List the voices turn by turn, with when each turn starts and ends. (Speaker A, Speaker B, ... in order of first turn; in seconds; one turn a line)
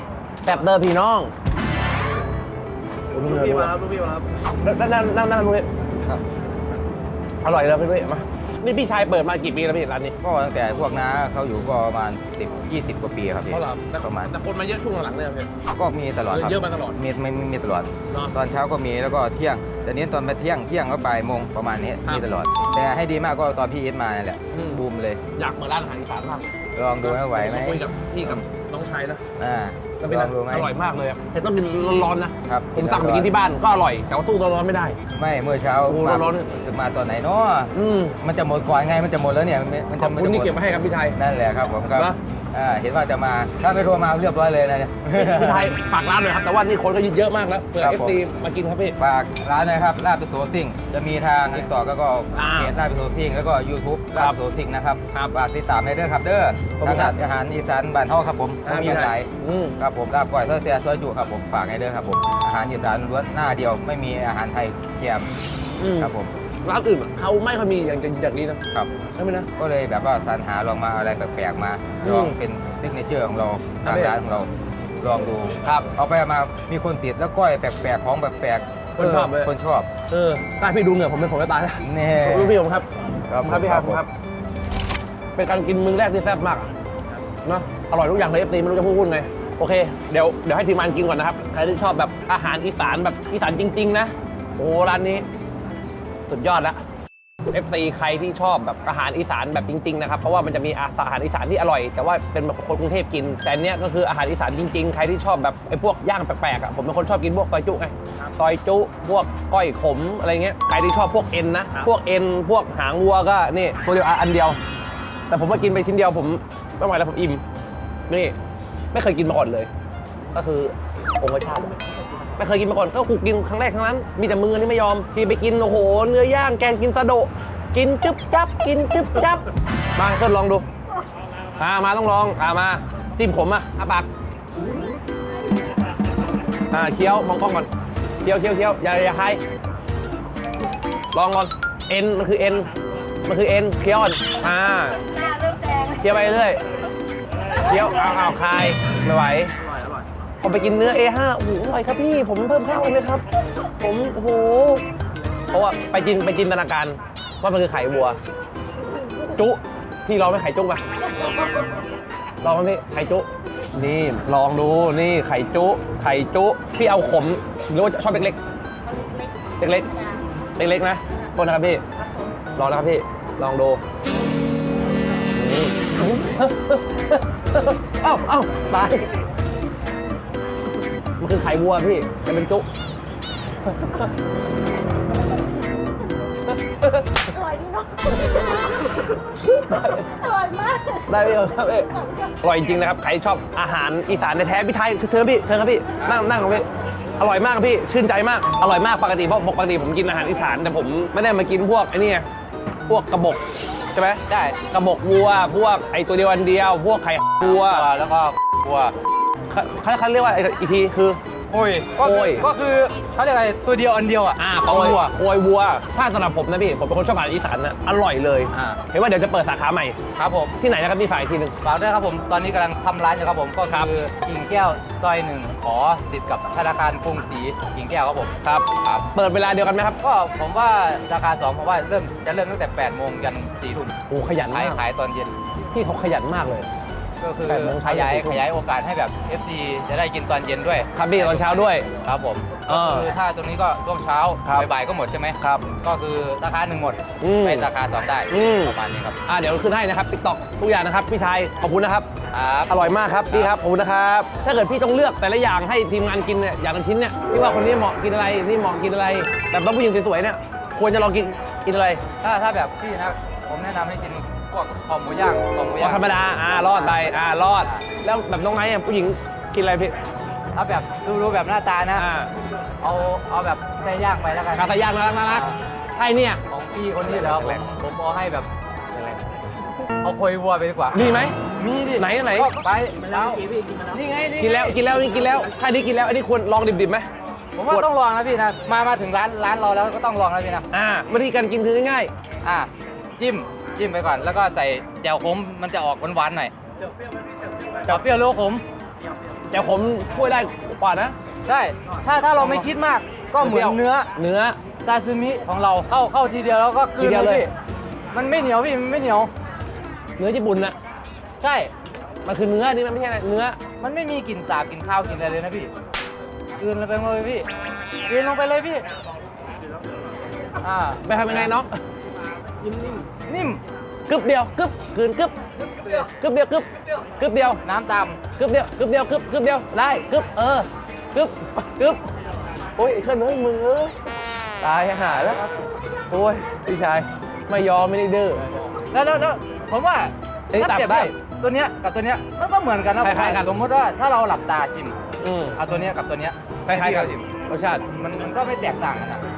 Speaker A: 0.4-1.3
Speaker A: 3.1-3.9
Speaker A: 4.6-5.7
Speaker A: 7.4-10.1
Speaker B: 10.2-14.3
Speaker A: 13.5-15.5
Speaker B: 15.7-25.2
Speaker A: 16.3-17.0
Speaker A: 18.1-18.3
Speaker A: 24.5-24.8
Speaker A: 25.4-29.2
Speaker B: 26.7-28.4
Speaker B: 29.4-30.7
Speaker A: 30.0-35.0
Speaker B: 32.4-33.3
Speaker B: 35.1-40.6
Speaker A: 35.9-36.5
Speaker A: 37.7-38.1
Speaker A: 40.0-41.2
Speaker B: 41.1-45.8
Speaker A: 45.1-48.9
Speaker B: 47.8-48.2
Speaker B: 49.0-65.3
Speaker A: 52.3-52.7
Speaker A: 56.8-57.1
Speaker A: 58.6-59.7
Speaker A: 65.8-66.1
Speaker B: 66.0-66.3
Speaker A: 66.6-68.6
Speaker A: 69.2-69.5
Speaker B: 69.5-79.9
Speaker A: 72.0-72.4
Speaker A: 73.8-74.2
Speaker A: 79.0-79.5
Speaker A: 80.1-84.1
Speaker B: 81.8-82.6
Speaker B: 83.3-84.0
Speaker A: 85.3-86.7
Speaker A: 87.4-95.2
Speaker A: 96.3-96.8
Speaker A: 97.5-114.6
Speaker A: 115.3-117.4
Speaker A: 118.1-118.3
Speaker A: 118.9-119.7
Speaker A: 120.3-121.8
Speaker A: 122.4-129.4
Speaker A: 129.9-130.6
Speaker A: 131.6-134.1
Speaker A: 136.7-137.7
Speaker A: 138.2-139.4
Speaker A: 141.1-142.7
Speaker A: 143.2-145.0
Speaker C: 145.4-145.9
Speaker A: 145.9-146.6
Speaker A: 147.6-149.5
Speaker A: 150.4-153.2
Speaker A: 153.8-154.8
Speaker A: 155.5-158.2
Speaker A: 159.2-160.8
Speaker A: 162.4-168.4
Speaker A: 169.6-169.9
Speaker A: 170.6-171.8
Speaker A: 172.6-173.8
Speaker A: 175.3-179.0
Speaker A: 181.2-182.7
Speaker A: 183.6-184.1
Speaker A: 186.8-187.2
Speaker C: 187.4-188.1
Speaker A: 188.3-190.3
Speaker C: 190.3-191.0
Speaker A: 191.0-196.7
Speaker B: 196.0-196.3
Speaker A: 197.2-202.3
Speaker A: 202.8-207.8
Speaker B: 204.3-204.6
Speaker B: 207.4-208.9
Speaker A: 209.5-211.2
Speaker B: 211.5-215.1
Speaker A: 212.0-212.5
Speaker A: 214.4-219.9
Speaker B: 218.5-218.8
Speaker B: 220.1-220.5
Speaker A: 220.6-221.5
Speaker B: 221.6-229.1
Speaker A: 228.4-230.0
Speaker B: 230.0-233.9
Speaker A: 234.1-234.8
Speaker B: 234.5-235.3
Speaker A: 235.7-236.7
Speaker B: 237.2-249.2
Speaker A: 237.5-238.4
Speaker A: 240.9-241.8
Speaker A: 242.7-243.1
Speaker A: 245.4-245.7
Speaker A: 247.2-247.7
Speaker A: 248.3-248.8
Speaker A: 249.3-252.1
Speaker B: 252.3-253.6
Speaker A: 252.7-262.0
Speaker B: 262.2-267.9
Speaker A: 265.8-269.9
Speaker B: 270.5-272.0
Speaker A: 271.9-272.3
Speaker B: 272.8-275.6
Speaker A: 274.5-276.4
Speaker B: 276.5-278.5
Speaker A: 277.0-277.7
Speaker A: 278.9-279.2
Speaker B: 280.0-281.0
Speaker A: 280.9-281.4
Speaker B: 281.5-284.8
Speaker A: 281.9-282.5
Speaker A: 284.4-287.1
Speaker B: 287.6-290.6
Speaker A: 290.7-292.1
Speaker B: 292.4-296.5
Speaker B: 297.9-298.6
Speaker A: 299.5-301.1
Speaker B: 301.4-304.1
Speaker A: 302.4-302.7
Speaker A: 303.4-304.6
Speaker B: 304.8-307.5
Speaker A: 307.0-307.5
Speaker B: 308.1-309.3
Speaker A: 310.2-310.8
Speaker B: 311.4-311.7
Speaker A: 312.2-313.6
Speaker B: 313.8-315.7
Speaker B: 316.6-317.5
Speaker B: 318.1-318.9
Speaker B: 320.6-321.5
Speaker A: 321.0-321.8
Speaker B: 323.2-323.6
Speaker A: 324.1-327.6
Speaker B: 327.6-328.2
Speaker A: 328.4-332.0
Speaker A: 332.8-333.9
Speaker A: 334.6-335.4
Speaker B: 335.0-335.5
Speaker A: 336.1-338.4
Speaker B: 338.9-345.0
Speaker A: 340.5-341.1
Speaker A: 343.0-343.5
Speaker A: 345.2-345.6
Speaker B: 345.6-347.3
Speaker A: 346.7-347.8
Speaker B: 347.9-349.2